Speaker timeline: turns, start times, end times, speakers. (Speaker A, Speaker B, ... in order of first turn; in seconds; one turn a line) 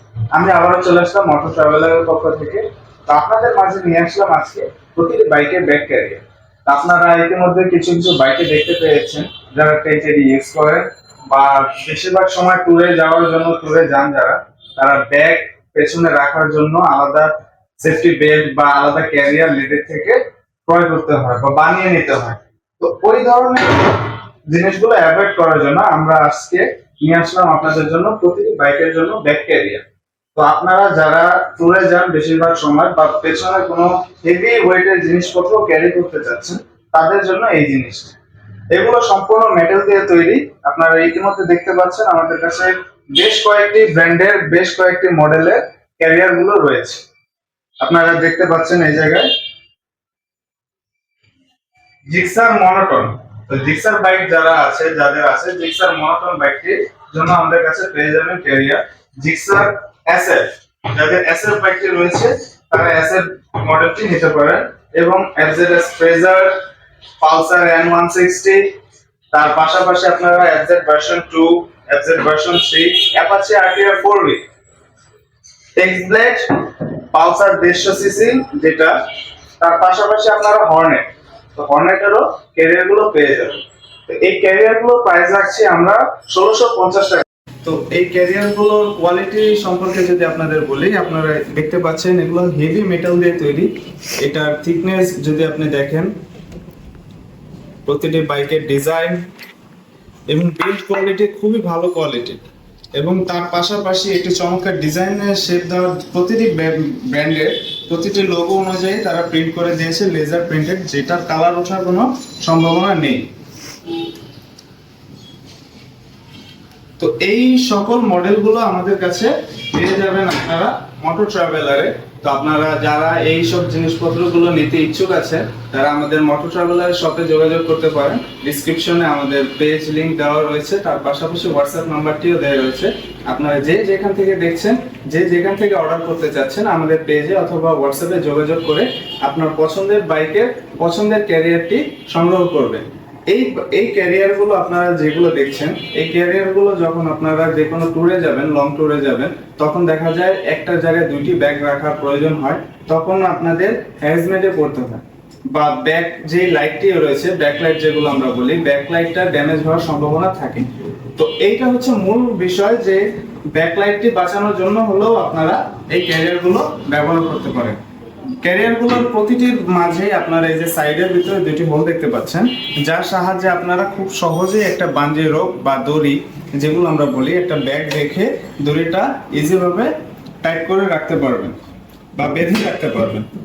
Speaker A: 0.3-38.2
Speaker A: 38.7-47.0
Speaker A: 47.8-49.3
Speaker A: 52.1-66.6
Speaker A: 67.2-68.7
Speaker A: 69.3-74.5
Speaker A: 75.8-79.0
Speaker A: 79.6-96.1
Speaker A: 97.9-99.3
Speaker A: 100.3-102.4
Speaker A: 103.0-113.3
Speaker A: 117.0-167.8
Speaker A: 168.4-181.6
Speaker A: 182.2-183.3